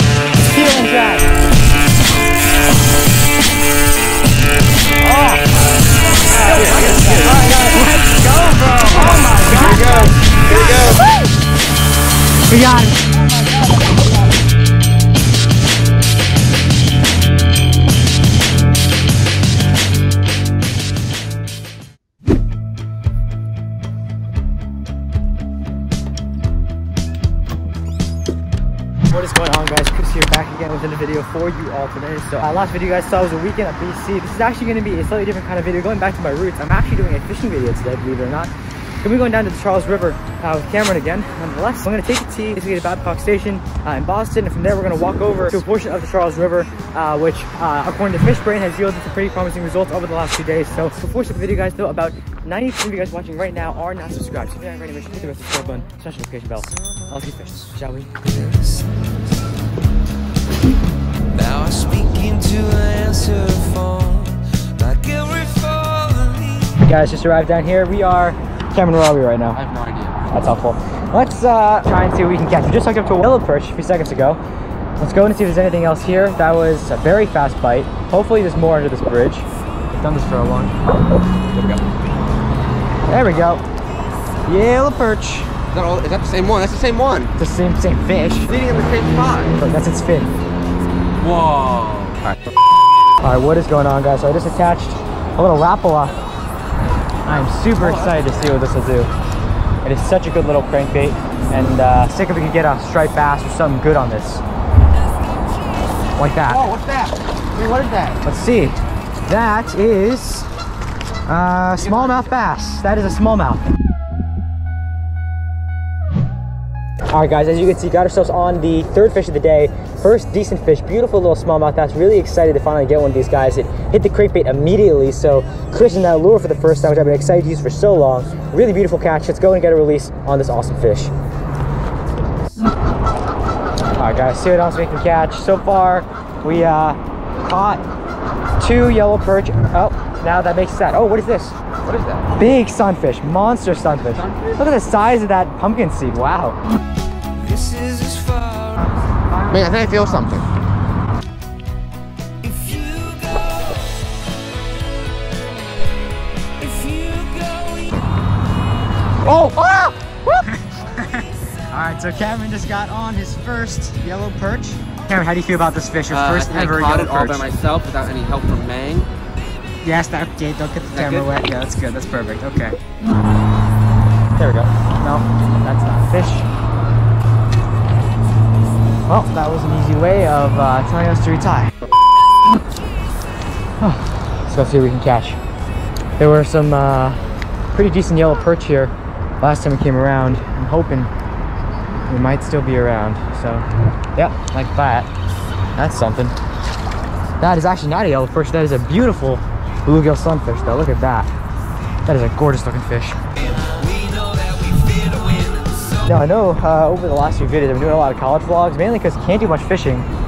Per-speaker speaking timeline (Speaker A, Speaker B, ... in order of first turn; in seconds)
Speaker A: 0.4-1.3, 6.3-11.1, 12.5-13.2, 29.1-58.2, 66.8-69.6, 70.3-74.4, 75.0-80.7, 83.1-83.6, 84.5-85.5, 87.4-88.5, 89.6-90.3, 93.2-96.2, 97.3-99.1, 99.8-104.4, 106.2-106.6, 108.2-110.5, 111.3-113.6, 117.1-131.1, 134.0-137.8, 138.6-141.6, 142.3-146.6, 160.5-167.4, 169.8-172.8, 174.4-176.5, 179.1-181.7, 183.8-185.4, 186.2-191.1, 192.1-195.1, 195.8-196.3, 197.4-201.3, 202.1-203.2, 206.0-210.1
Speaker B: 6.4-7.7, 8.9-11.1, 13.2-13.9, 69.5-70.2, 85.7-87.3, 88.5-89.5, 91.2-92.2, 97.8-98.4, 106.5-108.2, 111.8-112.2, 141.8-142.3, 144.0-144.6, 149.5-150.4, 159.2-160.4, 166.1-169.1, 170.9-171.3
Speaker C: 61.3-66.7, 147.4-149.0, 152.4-153.9, 156.6-158.1, 203.8-205.9